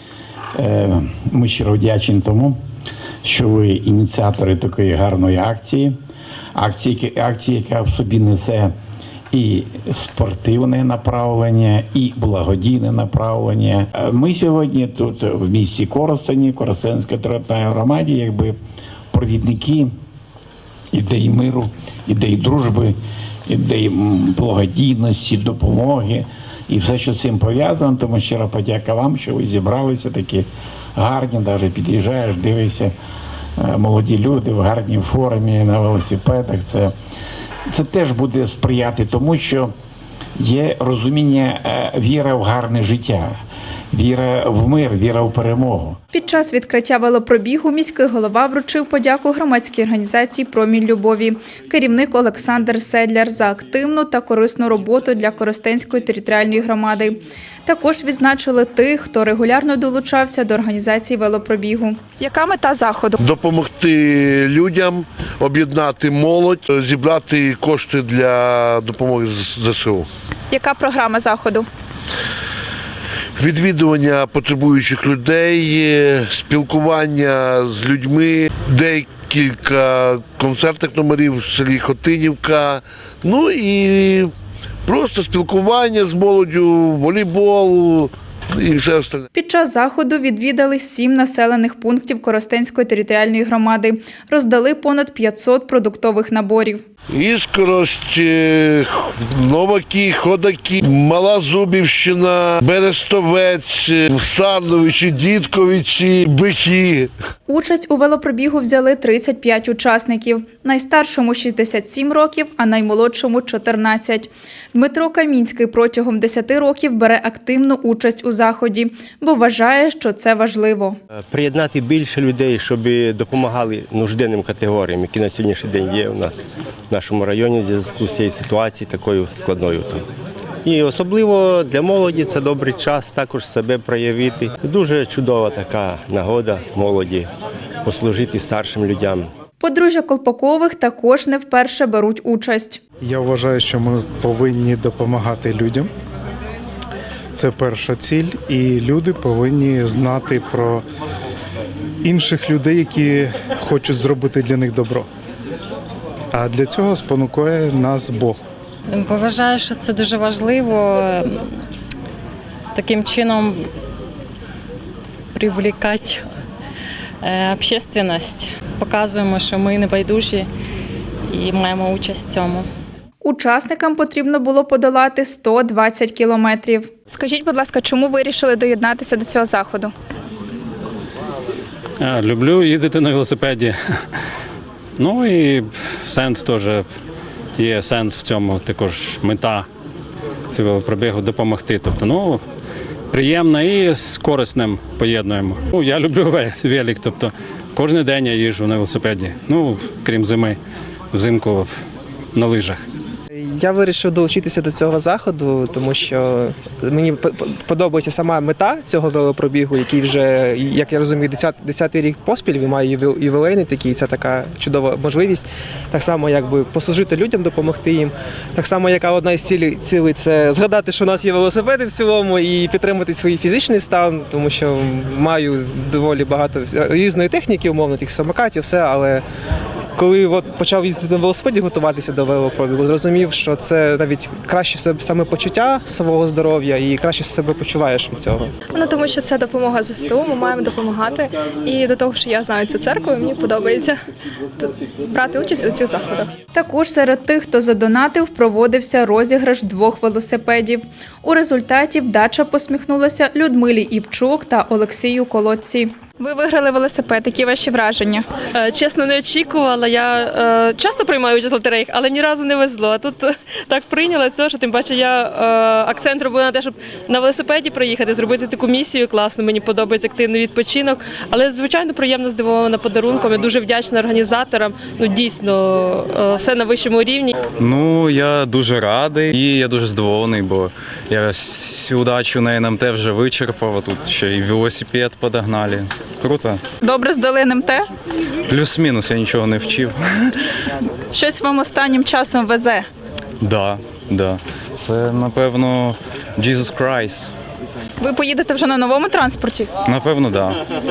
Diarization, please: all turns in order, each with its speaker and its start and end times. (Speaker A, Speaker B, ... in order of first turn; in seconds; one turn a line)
Speaker A: 0.6-2.5
Speaker A: 3.2-5.9
Speaker A: 6.5-8.7
Speaker A: 9.3-18.6
Speaker A: 19.1-19.9
Speaker A: 20.9-32.9
Speaker A: 33.6-36.9
Speaker A: 37.7-39.7
Speaker A: 40.4-43.4
Speaker A: 43.9-46.0
Speaker B: 46.1-63.2
Speaker C: 63.2-70.1
Speaker B: 70.5-71.7
Speaker C: 73.4-84.3
Speaker C: 84.8-89.2
Speaker B: 89.3-96.8
Speaker C: 97.1-107.1
Speaker B: 107.5-121.0
Speaker D: 121.3-130.1
Speaker D: 130.6-137.3
Speaker D: 137.8-139.3
Speaker B: 139.6-142.8
Speaker E: 143.0-145.9
Speaker E: 147.3-150.8
Speaker E: 152.0-155.1
Speaker E: 156.3-158.4
Speaker F: 158.9-161.6
Speaker F: 162.7-163.7
Speaker F: 165.3-166.2
Speaker F: 167.2-170.5
Speaker F: 171.3-172.7
Speaker B: 173.2-179.9
Speaker G: 182.0-183.7
Speaker G: 185.0-186.8
Speaker G: 187.6-189.7
Speaker G: 190.5-192.4
Speaker G: 193.1-200.6
Speaker G: 201.1-201.7
Speaker G: 202.3-202.8
Speaker H: 203.3-229.2
Speaker H: 229.9-238.5
Speaker I: 238.7-244.0
Speaker I: 244.6-246.3
Speaker B: 246.5-258.2
Speaker J: 258.5-277.4
Speaker K: 277.6-286.6
Speaker B: 286.8-287.8
Speaker K: 288.5-290.3
Speaker B: 291.1-292.9
Speaker K: 293.4-297.3
Speaker B: 298.0-299.7
Speaker K: 299.8-300.6